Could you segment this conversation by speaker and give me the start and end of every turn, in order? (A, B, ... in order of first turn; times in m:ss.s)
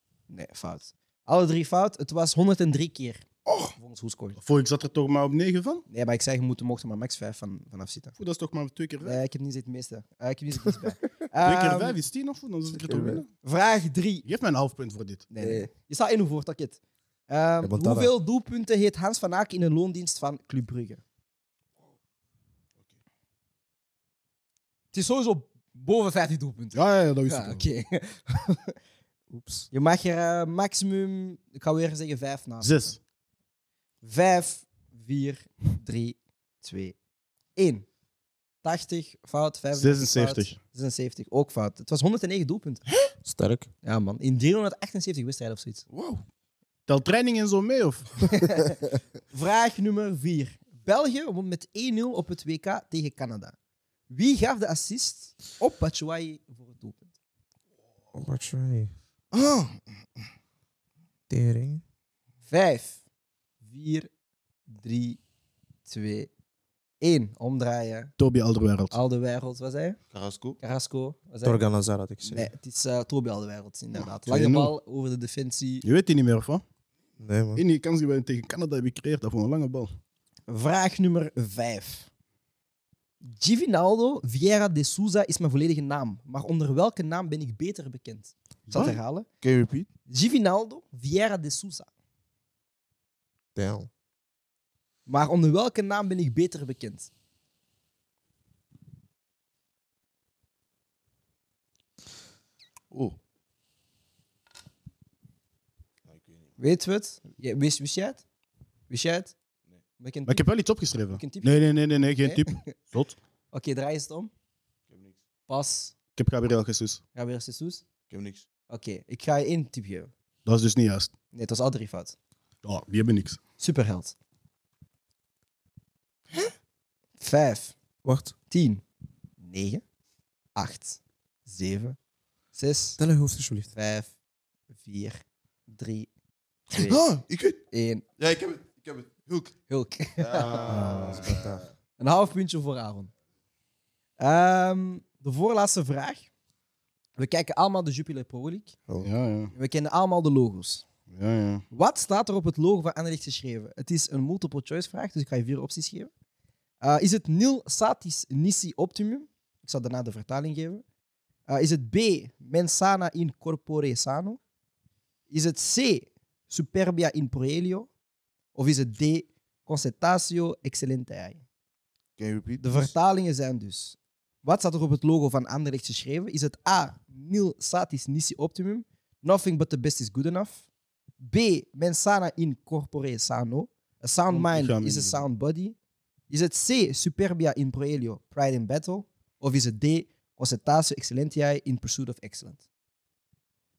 0:00.3-0:04.4 A
0:04.4-0:05.8 B
0:05.9-0:08.2 A
0:08.2-0:09.2 B
0:09.0-0:12.0 A
0:11.4-0:13.3 B
0:12.7-0:13.2 C
0:13.4-0:14.2 A
0:14.2-0:15.3 B
0:15.3-0:21.0 A
0:15.4-0:15.7 C
0:17.6-0:18.1 C
0:24.9-0:28.8 A
0:26.7-0:27.6 B
0:29.3-0:29.7 C
0:29.7-0:32.7 A
0:32.6-0:33.0 B
0:34.0-0:37.0 A
0:37.6-0:37.9 A
0:38.6-0:42.8 A
0:39.8-0:40.6 B
0:43.2-0:43.7 C
0:43.8-0:45.8 A
0:45.9-0:46.2 D
0:46.9-0:48.3 B
0:48.3-0:53.6 A
0:54.1-0:57.1 A
0:58.1-0:58.9 C
0:59.3-0:59.8 D
1:01.3-1:01.8 C
1:02.5-1:03.0 A
1:03.6-1:04.1 A
1:04.7-1:05.2 A
1:05.9-1:06.3 A
1:07.0-1:08.1 A
1:08.2-1:09.0 B
1:08.9-1:10.0 A
1:10.1-1:10.6 D
1:10.6-1:11.6 A
1:11.4-1:12.5 C
1:12.2-1:15.8 A
1:14.3-1:14.7 B
1:15.8-1:16.6 B
1:17.2-1:17.6 C
1:17.6-1:19.9 B
1:20.5-1:22.1 A
1:23.2-1:29.3 A
1:28.7-1:29.0 B
1:29.4-1:29.9 D
1:30.1-1:31.9 A
1:33.6-1:33.9 C
1:35.1-1:37.1 A
1:42.9-1:43.2 D
1:46.1-1:46.4 D
1:46.6-1:48.2 A
1:48.9-1:49.3 A
1:50.0-1:50.4 A
1:50.3-1:53.2 B
1:51.2-1:51.7 A
1:52.2-1:52.8 A
1:53.5-1:54.3 A
1:54.9-1:55.2 D
1:55.5-1:55.9 A
1:56.2-1:57.0 B
1:57.2-1:57.8 A
1:58.1-1:58.4 D
1:58.7-2:00.1 A
2:00.4-2:01.1 B
2:01.3-2:02.2 A
2:02.6-2:03.4 B
2:03.6-2:04.2 A
2:07.2-2:07.8 A
2:08.0-2:08.3 C
2:08.5-2:08.8 A
2:09.4-2:09.8 A
2:10.6-2:12.0 A
2:12.5-2:13.0 A
2:13.0-2:13.7 C
2:13.7-2:14.1 A
2:14.7-2:16.1 A
2:16.7-2:17.0 A
2:16.8-2:17.6 D
2:17.7-2:18.0 A
2:18.2-2:19.5 D
2:19.7-2:21.4 A
2:20.2-2:21.6 D
2:20.7-2:21.6 C
2:22.0-2:23.1 A
2:24.2-2:26.3 A
2:27.2-2:28.8 A
2:29.0-2:29.5 B
2:29.6-2:30.9 A
2:31.1-2:31.6 B
2:31.7-2:36.1 A
2:36.8-2:40.8 A
2:41.5-2:44.4 A
2:45.3-2:47.9 A
2:48.6-2:51.4 A
2:52.2-2:52.9 D
2:52.6-3:00.6 A
3:01.2-3:05.8 A
3:04.3-3:05.2 B
3:06.3-3:12.6 A